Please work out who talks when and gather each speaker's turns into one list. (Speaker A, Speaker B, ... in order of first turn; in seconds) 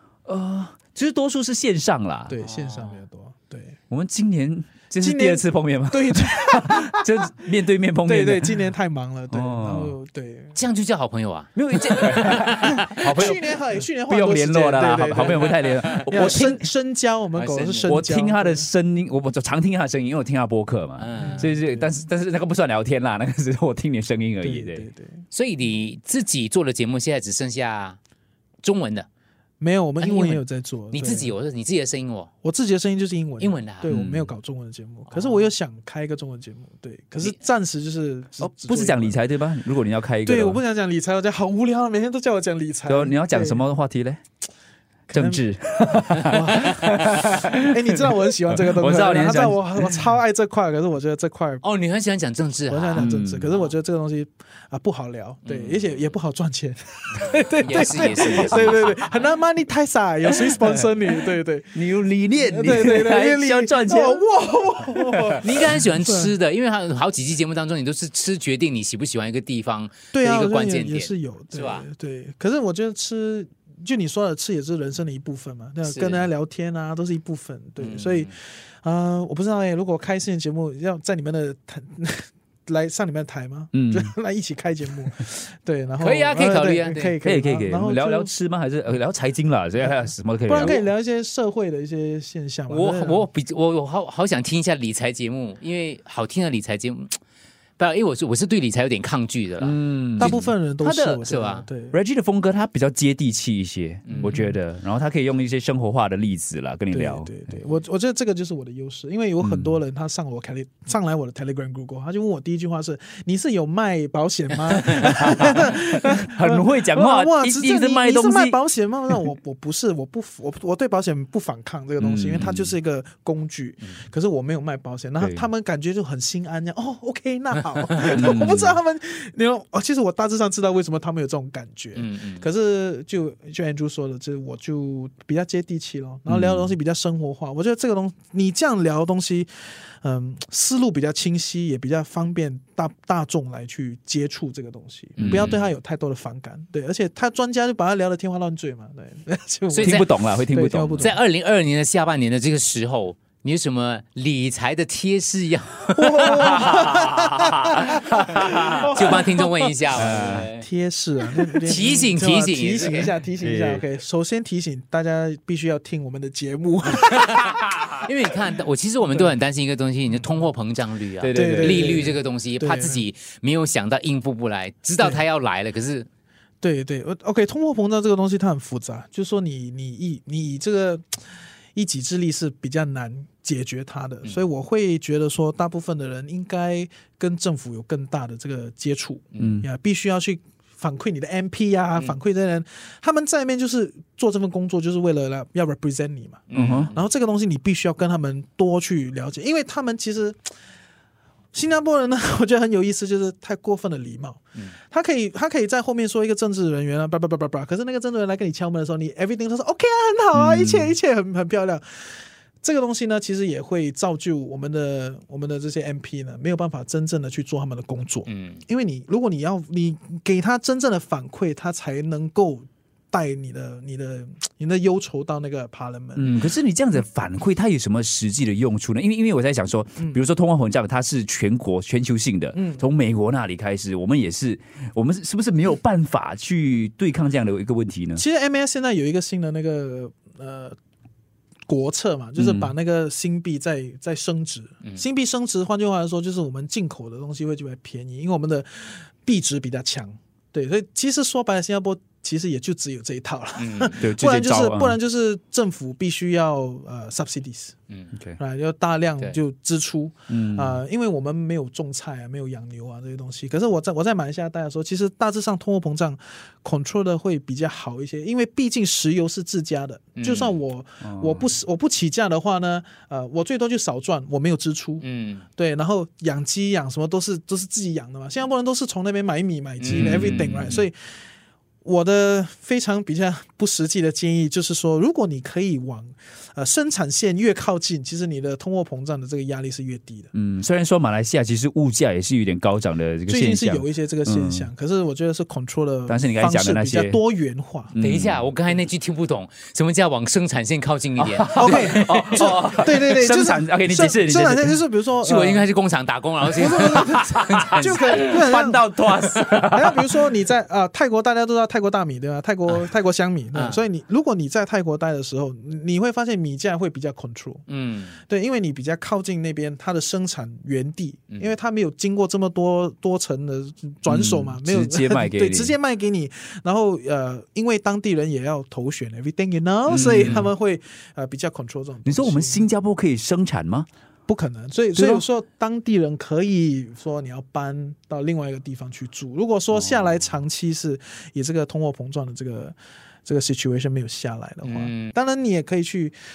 Speaker A: 0.2-2.4, 3.9-8.7, 9.3-9.9, 11.5-13.4, 13.9-16.6, 17.8-24.9, 33.9-34.3, 38.4-40.6, 42.9-44.2, 45.1-50.0, 53.0-53.6, 58.0-58.9, 60.4-60.8, 61.7-64.2, 64.9-65.4, 83.7-84.1, 87.2-90.9, 99.6-101.2, 101.9-107.4, 109.4-109.8, 115.2-118.6, 122.0-122.7, 128.1-128.8, 136.3-136.7, 149.8-151.1, 159.9-160.5, 163.4-163.8, 171.2-172.1, 189.4-189.7, 196.5-196.9, 210.3-210.9, 226.1-238.2, 242.4-242.7, 254.0-255.0, 258.1-258.4, 260.3-260.8, 271.0-271.5, 279.9-280.8, 290.3-294.7, 296.1-297.2, 297.9-298.4, 301.2-304.8, 307.0-310.3, 324.1-325.7, 329.9-330.5, 332.1-333.9, 334.9-335.2
Speaker B: 2.3-3.8, 5.0-7.3, 8.0-10.6, 13.2-15.6, 16.1-18.7, 21.4-21.9, 24.4-25.2, 29.6-31.3, 32.4-39.2, 40.2-43.6, 45.1-46.7, 47.4-51.6, 52.7-61.8, 62.3-66.3, 70.1-88.3, 90.4-93.2, 100.2-101.9, 106.9-151.2, 155.9-159.5, 160.6-167.5, 171.3-173.0, 176.6-200.5, 201.5-226.3, 232.5-232.8, 238.2-240.8, 241.7-257.8, 258.4-275.0, 275.6-281.1, 281.8-290.3, 293.3-297.9, 301.6-305.7, 306.6-307.2, 307.8-317.6, 318.3-332.7, 334.3-346.1
Speaker C: 2.4-3.0, 10.5-13.5, 15.3-16.6, 17.4-17.9, 21.0-21.5, 25.3-28.0, 28.6-29.1, 30.0-32.3, 33.4-34.0, 35.1-35.5, 46.2-46.9, 51.6-53.1, 55.4-56.0, 57.6-59.1, 65.4-71.9, 75.8-76.3, 77.8-78.3, 86.0-87.2, 92.7-97.2, 97.8-100.5, 101.3-101.7, 104.0-104.3, 131.9-132.5, 145.2-145.7, 149.7-150.1, 151.0-156.9, 157.9-160.6, 161.6-163.1, 168.0-176.1, 196.5-197.0, 218.2-218.6, 253.6-254.0, 270.2-270.6, 275.0-275.4, 279.8-280.7, 298.0-302.5, 305.2-308.3, 313.5-313.8, 317.7-318.2, 329.9-330.5, 344.6-345.1